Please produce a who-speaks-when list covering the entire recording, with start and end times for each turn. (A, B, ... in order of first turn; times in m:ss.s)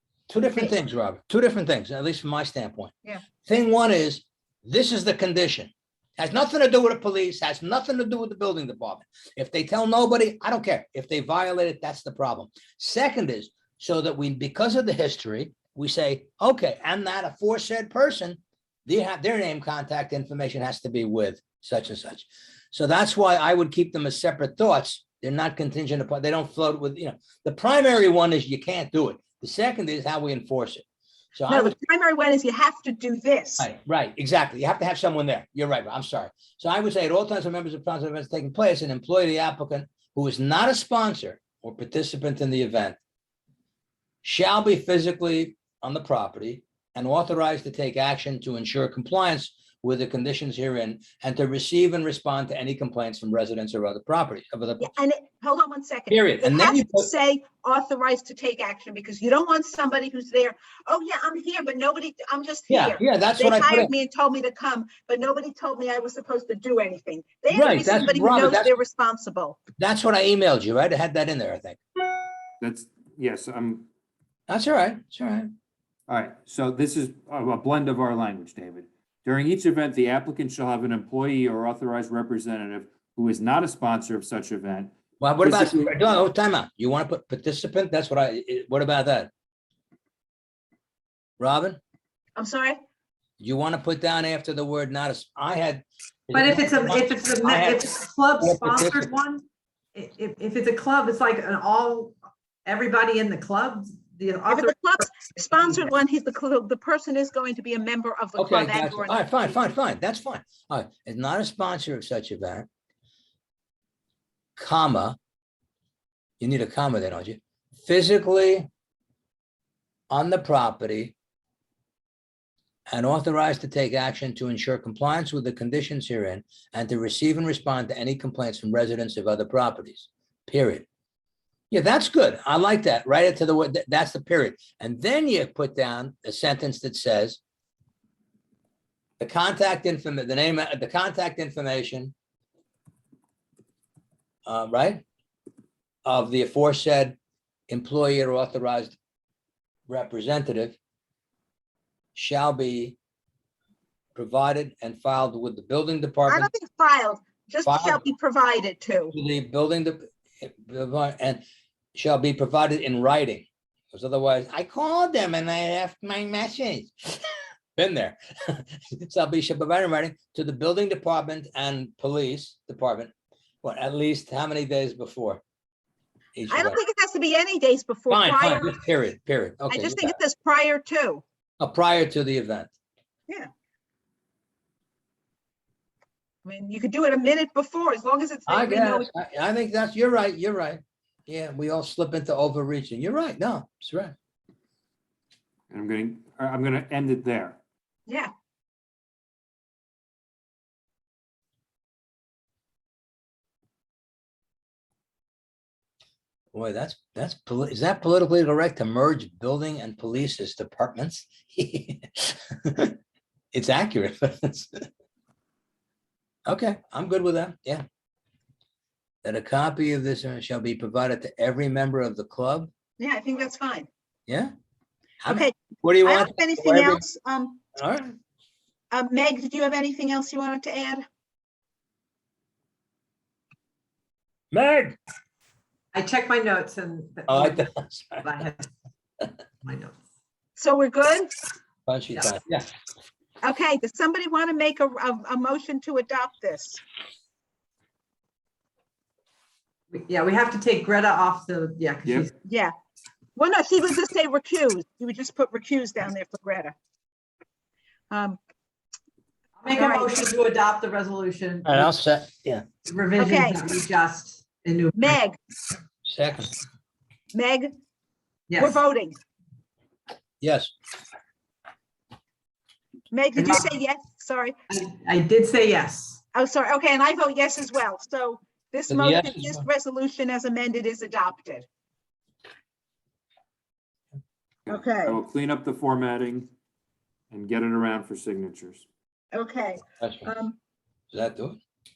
0:00.3-0:02.9 A
0:03.4-0:30.8 A
0:31.3-0:31.7 A
0:31.5-0:33.7 B
0:33.6-0:43.0 A
0:44.2-0:54.9 A
0:54.8-1:09.6 B
0:56.1-0:57.1 A
1:02.7-1:03.9 A
1:07.5-1:08.8 A
1:09.8-1:11.8 A
1:12.6-1:13.9 C
1:14.5-1:15.5 A
1:16.1-1:25.9 C
1:25.2-1:29.3 A
1:31.4-1:31.8 A
1:32.4-1:32.8 B
1:33.4-1:37.9 A
1:36.3-1:45.9 D
1:38.4-1:39.1 A
1:44.5-1:49.6 B
1:48.4-1:52.6 A
1:54.6-1:55.2 A
1:56.4-1:58.7 A
2:00.1-2:01.2 A
2:02.9-2:10.8 A
2:11.7-2:17.4 A
2:19.2-2:22.1 A
2:24.4-2:25.0 A
2:26.0-2:27.2 A
2:27.7-2:29.0 A
2:29.9-2:30.8 A
2:32.1-2:33.0 A
2:34.1-2:36.5 A
2:36.3-2:39.1 B
2:37.6-2:38.0 A
2:39.1-2:41.4 A
2:41.9-2:53.1 A
2:53.6-2:55.4 A
2:56.3-2:56.8 A
2:56.5-2:58.7 B
2:58.1-3:00.2 A
2:59.7-3:01.2 B
3:01.6-3:02.7 A
3:06.4-3:09.1 B
3:08.5-3:14.1 A
3:15.7-3:17.6 C
3:26.5-3:33.0 A
3:33.5-3:34.8 A
3:36.4-3:37.8 A
3:39.2-3:42.7 A
3:43.0-3:43.9 B
3:44.3-3:44.5 A
3:45.2-3:47.0 A
3:45.3-3:47.6 B
3:47.8-3:48.1 A
3:48.9-3:51.0 B
3:54.5-3:55.0 A
3:55.9-3:57.7 D
3:57.3-3:58.3 A
3:58.2-3:58.7 D
3:59.6-4:00.0 D
4:00.6-4:01.3 B
4:01.9-4:02.7 A
4:03.4-4:06.8 B
4:09.9-4:12.3 D
4:12.0-4:12.3 C
4:12.4-4:12.7 B
4:13.3-4:16.7 B
4:18.1-4:18.4 B
4:19.6-4:21.9 D
4:19.7-4:20.1 B
4:21.6-4:22.6 A
4:22.8-4:25.2 D
4:23.2-4:23.6 B
4:24.9-4:25.4 B
4:26.0-4:26.5 A
4:27.3-4:27.7 B
4:28.5-4:28.8 D
4:28.6-4:29.2 B
4:30.4-4:30.7 A
4:33.1-4:34.6 B
4:33.4-4:33.6 D
4:34.7-4:36.2 D
4:36.3-4:41.7 B
4:38.9-4:39.6 A
4:44.7-4:46.5 C
4:44.7-4:45.2 B
4:47.3-4:48.8 C
4:49.3-4:50.6 B
4:50.0-4:50.3 A
4:51.1-4:51.6 A